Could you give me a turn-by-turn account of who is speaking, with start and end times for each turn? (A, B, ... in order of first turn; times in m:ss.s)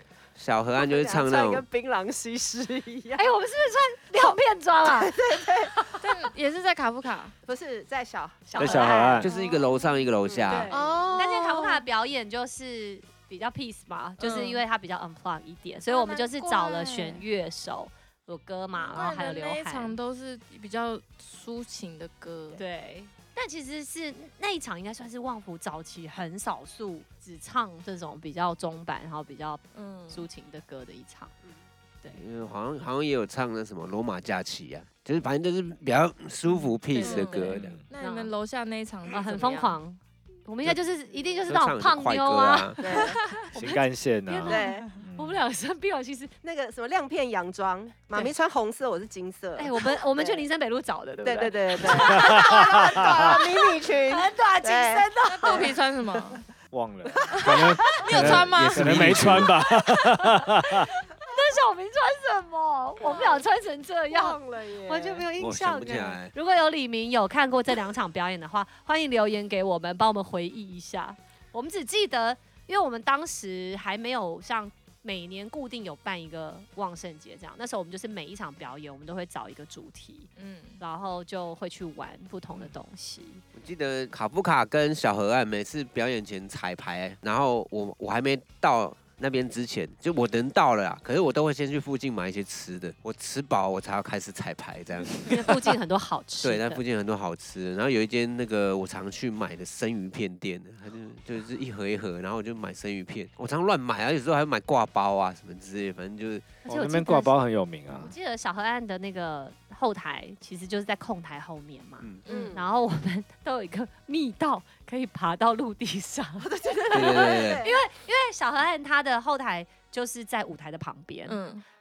0:00.3-0:01.6 A
0:00.8-0:03.2 B
0:03.2-0:06.0 C
0:04.8-0:05.9 B
0:06.0-0:07.3 D
0:07.4-0:09.1 B
0:08.5-0:09.3 C
0:08.6-0:09.3 E
0:09.2-0:10.7 A
0:10.2-0:11.7 B
0:10.5-0:20.0 C
0:10.7-0:11.4 D
0:14.2-0:14.6 D
0:15.9-0:17.2 D
0:18.8-0:22.6 D
0:22.5-0:31.3 C
0:29.7-0:30.2 D
0:32.1-0:37.8 A
0:36.9-0:39.8 D
0:37.0-0:37.4 C
0:37.5-0:37.8 E
0:38.0-0:38.3 C
0:39.1-0:46.3 C
0:41.1-0:41.4 B
0:41.5-0:42.8 A
0:42.8-0:43.2 B
0:43.5-0:45.4 E
0:44.4-0:44.9 B
0:46.4-0:50.4 B
0:49.6-0:55.7 C
0:51.2-0:55.7 B
0:51.9-0:53.4 E
0:55.2-0:56.4 D
0:56.7-1:00.9 E
0:57.3-0:59.1 D
0:58.1-0:59.5 A
0:59.8-1:23.4 C
1:03.0-1:03.5 B
1:04.1-1:05.3 B
1:05.4-1:06.3 A
1:20.4-1:20.8 D
1:23.5-1:35.6 A
1:35.2-1:36.8 C
1:36.4-1:46.5 A
1:46.6-1:47.3 C
1:46.6-1:48.1 E
1:47.9-2:01.4 C
1:52.0-1:52.2 A
1:52.2-1:52.6 D
1:52.3-1:52.7 B
1:56.4-1:57.8 B
1:56.9-1:57.6 A
2:01.2-2:01.6 D